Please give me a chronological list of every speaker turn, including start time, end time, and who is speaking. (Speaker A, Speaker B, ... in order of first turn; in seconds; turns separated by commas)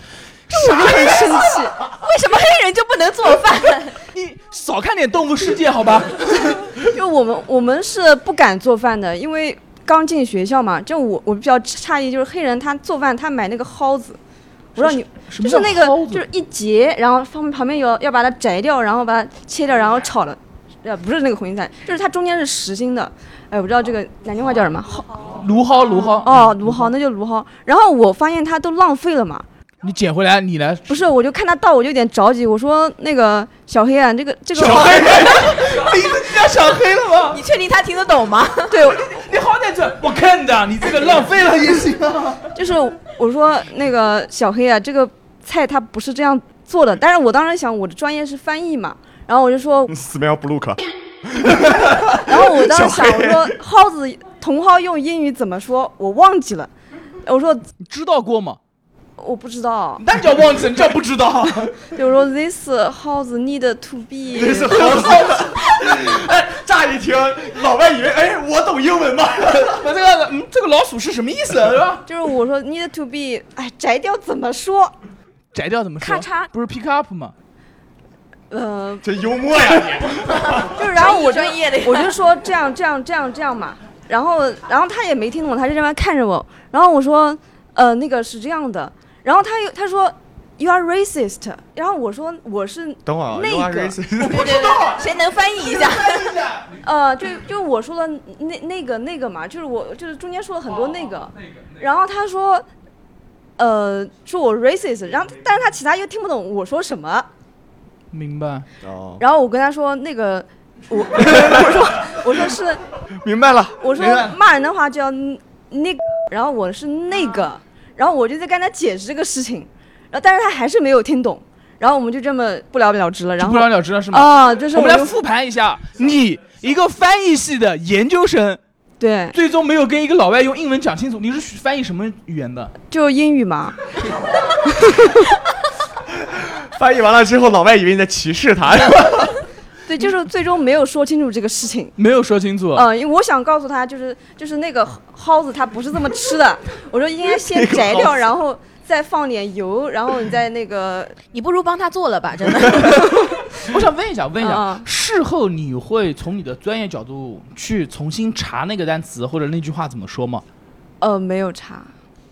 Speaker A: 0.5-1.9, Speaker B: 1.9-4.0, Speaker C: 4.1-6.7, Speaker A: 6.8-14.2, Speaker A: 14.8-25.2, Speaker C: 14.8-16.2, Speaker C: 25.3-26.9, Speaker A: 26.2-29.5, Speaker C: 29.8-31.0, Speaker A: 30.9-35.2, Speaker C: 34.6-37.4, Speaker B: 37.3-38.8, Speaker A: 38.7-39.0, Speaker C: 38.8-42.5, Speaker A: 42.5-49.9, Speaker D: 49.9-53.6, Speaker A: 52.2-56.7, Speaker A: 57.2-57.6, Speaker C: 57.8-58.6, Speaker A: 59.2-60.0, Speaker C: 60.0-61.8, Speaker A: 61.9-65.0, Speaker D: 64.3-69.8, Speaker C: 64.7-65.5, Speaker C: 69.6-72.0, Speaker A: 72.1-75.0, Speaker C: 75.5-77.3, Speaker B: 76.0-76.5, Speaker A: 78.5-79.0, Speaker D: 79.0-80.8, Speaker A: 80.7-94.0, Speaker B: 80.9-82.2, Speaker D: 93.1-94.9, Speaker B: 94.2-96.4, Speaker A: 96.7-102.6, Speaker A: 103.6-107.3, Speaker C: 108.1-108.7, Speaker D: 108.8-109.2, Speaker A: 109.2-112.8, Speaker D: 113.2-114.3, Speaker A: 113.8-125.1, Speaker C: 123.4-128.6, Speaker A: 129.0-129.4, Speaker C: 129.3-132.7, Speaker A: 132.9-133.8, Speaker A: 134.7-135.3, Speaker D: 136.2-139.4, Speaker A: 139.9-141.9, Speaker C: 142.0-142.9, Speaker A: 142.7-151.2, Speaker D: 147.4-148.2, Speaker B: 151.3-153.1, Speaker C: 153.6-160.4, Speaker A: 154.4-154.9, Speaker A: 161.0-161.9